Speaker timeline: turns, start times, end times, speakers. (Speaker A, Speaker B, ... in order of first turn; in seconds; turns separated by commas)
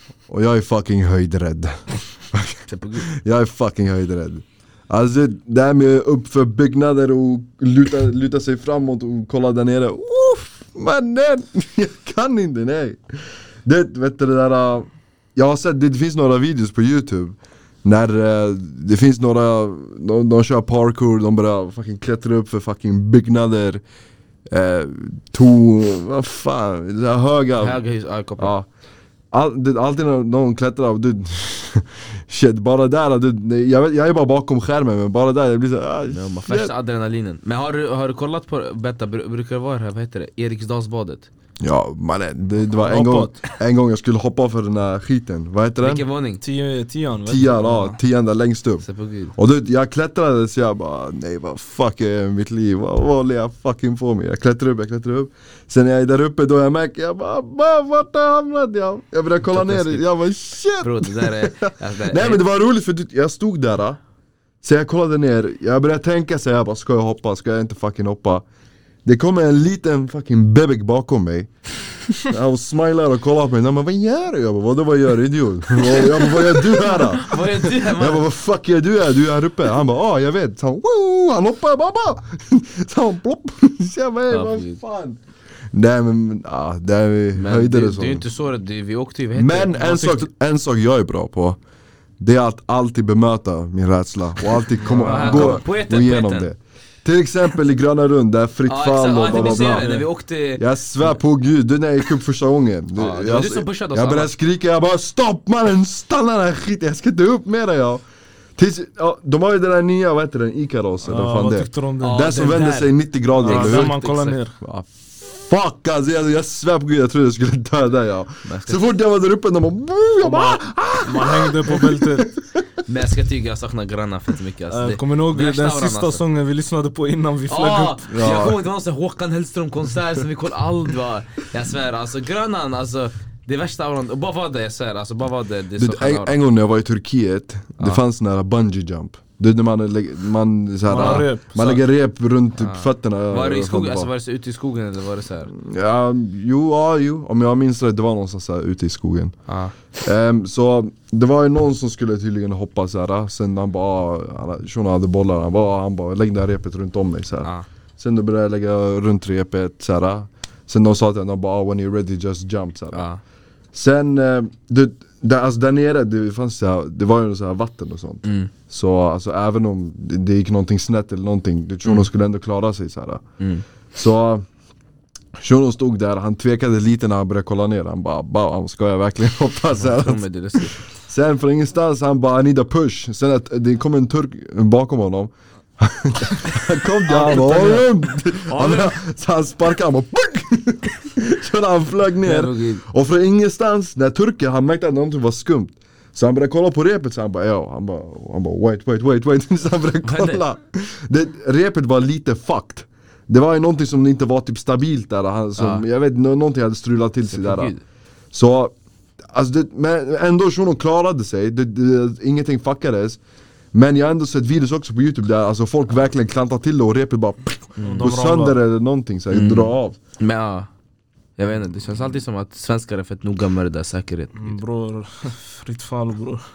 Speaker A: 0.3-23.8, Speaker B: 2.7-3.1, Speaker A: 24.5-27.8, Speaker B: 27.6-28.5, Speaker A: 28.4-28.7, Speaker A: 29.3-36.7, Speaker B: 36.1-41.3, Speaker A: 41.6-46.0, Speaker C: 42.7-43.4, Speaker B: 45.8-46.4, Speaker C: 46.4-48.0, Speaker A: 47.2-64.0, Speaker B: 48.8-49.3, Speaker B: 59.5-60.0, Speaker B: 60.8-62.4, Speaker A: 64.6-68.4, Speaker A: 69.0-71.5, Speaker A: 72.1-85.2, Speaker B: 76.0-78.2, Speaker B: 84.3-84.8, Speaker A: 85.7-88.2, Speaker B: 87.4-90.1, Speaker A: 89.3-91.6, Speaker C: 89.8-90.2, Speaker A: 92.2-100.0, Speaker C: 94.8-95.6, Speaker B: 95.0-96.5, Speaker B: 98.7-101.1, Speaker C: 99.3-100.1, Speaker A: 100.5-108.0, Speaker B: 103.0-104.3, Speaker A: 108.6-113.9, Speaker C: 111.0-112.2, Speaker B: 112.0-114.4, Speaker C: 113.4-114.6, Speaker A: 114.6-122.6, Speaker B: 118.4-118.8, Speaker C: 120.2-122.3, Speaker B: 122.8-126.2, Speaker C: 124.7-128.1, Speaker B: 127.5-136.4, Speaker A: 128.1-128.6, Speaker A: 135.8-144.1, Speaker C: 140.9-141.8, Speaker B: 140.9-141.2, Speaker B: 142.6-145.5, Speaker A: 145.5-149.4, Speaker B: 149.5-149.7, Speaker A: 150.0-163.1, Speaker B: 162.9-163.2, Speaker A: 163.7-173.2, Speaker B: 168.2-168.5, Speaker A: 173.9-174.4, Speaker A: 175.4-207.7, Speaker B: 179.8-180.8, Speaker B: 187.1-189.0, Speaker B: 192.2-192.8, Speaker B: 200.0-200.4, Speaker B: 205.6-205.8, Speaker B: 207.3-207.8, Speaker A: 208.3-208.7, Speaker A: 209.2-213.2, Speaker A: 213.7-220.0, Speaker B: 217.8-218.1, Speaker C: 217.8-218.6, Speaker B: 219.3-220.7, Speaker B: 221.4-224.6, Speaker C: 224.4-226.4